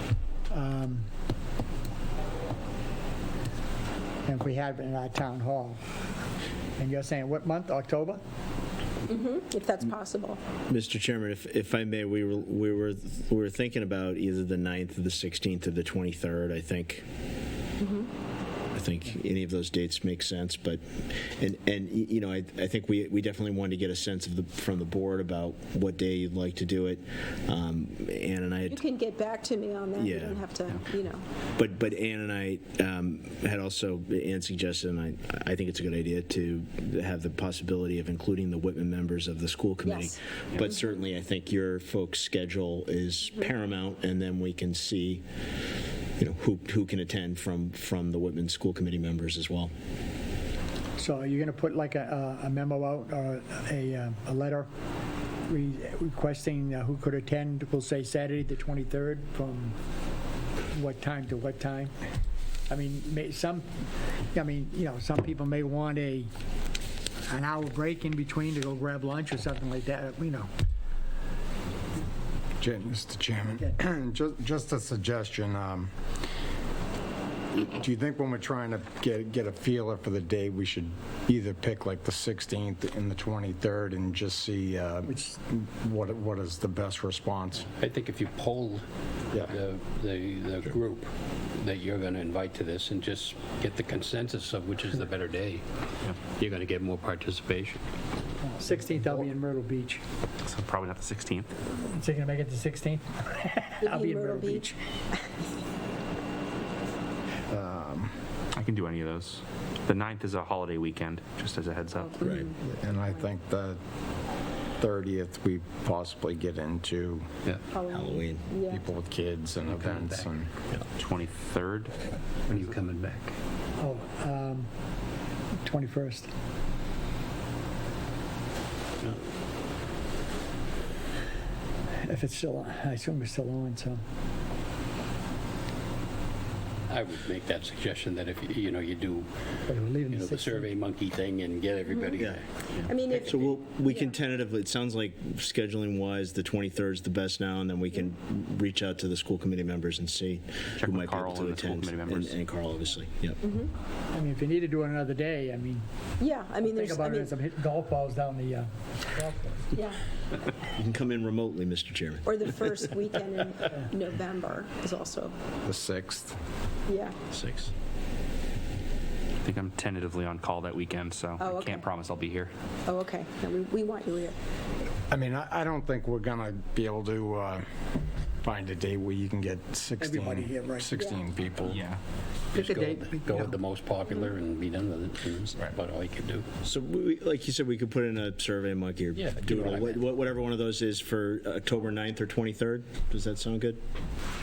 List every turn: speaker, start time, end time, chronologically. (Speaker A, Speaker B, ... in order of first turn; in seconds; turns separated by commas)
Speaker A: 0.5-1.1, Speaker A: 4.2-5.8, Speaker A: 6.8-8.2, Speaker B: 9.1-10.4, Speaker C: 10.7-17.1, Speaker B: 17.8-18.1, Speaker C: 18.7-28.8, Speaker B: 28.7-31.2, Speaker C: 29.9-30.5, Speaker C: 31.6-45.2, Speaker B: 39.8-41.0, Speaker C: 46.2-49.7, Speaker A: 51.0-54.7, Speaker A: 55.5-59.8, Speaker A: 60.7-61.9, Speaker A: 62.7-66.3, Speaker A: 67.3-70.5, Speaker D: 72.6-75.9, Speaker D: 77.5-87.7, Speaker A: 85.1-85.4, Speaker E: 87.8-88.8, Speaker E: 89.4-95.7, Speaker E: 96.2-97.8, Speaker A: 98.4-100.0, Speaker F: 100.4-101.5, Speaker A: 101.8-104.8, Speaker B: 103.8-105.3, Speaker D: 107.5-108.1, Speaker F: 108.5-112.2, Speaker B: 112.0-112.6, Speaker D: 112.6-113.8, Speaker D: 114.8-117.3, Speaker B: 117.7-118.8, Speaker C: 117.9-118.5, Speaker D: 118.7-120.5, Speaker E: 119.6-120.3, Speaker F: 121.0-121.9, Speaker E: 122.5-123.3, Speaker A: 123.8-124.7, Speaker A: 125.6-126.3, Speaker A: 132.0-134.0, Speaker E: 136.9-139.3, Speaker A: 139.7-140.7, Speaker E: 140.1-143.6, Speaker B: 141.9-142.2, Speaker B: 142.8-144.2, Speaker C: 143.2-153.4, Speaker F: 150.8-152.4, Speaker B: 153.4-153.7, Speaker A: 154.1-155.8, Speaker B: 156.2-157.3, Speaker A: 156.6-159.7, Speaker B: 159.8-160.0, Speaker C: 160.7-162.7, Speaker B: 162.2-165.3, Speaker D: 165.7-166.4, Speaker B: 166.9-167.2, Speaker C: 167.3-167.7, Speaker F: 169.4-172.5, Speaker B: 171.4-171.9, Speaker B: 172.9-174.3, Speaker D: 175.1-177.6, Speaker D: 178.4-181.9, Speaker A: 180.0-181.0, Speaker F: 181.6-182.0, Speaker E: 182.5-186.5, Speaker A: 182.6-183.6, Speaker C: 186.6-193.8, Speaker E: 189.2-190.0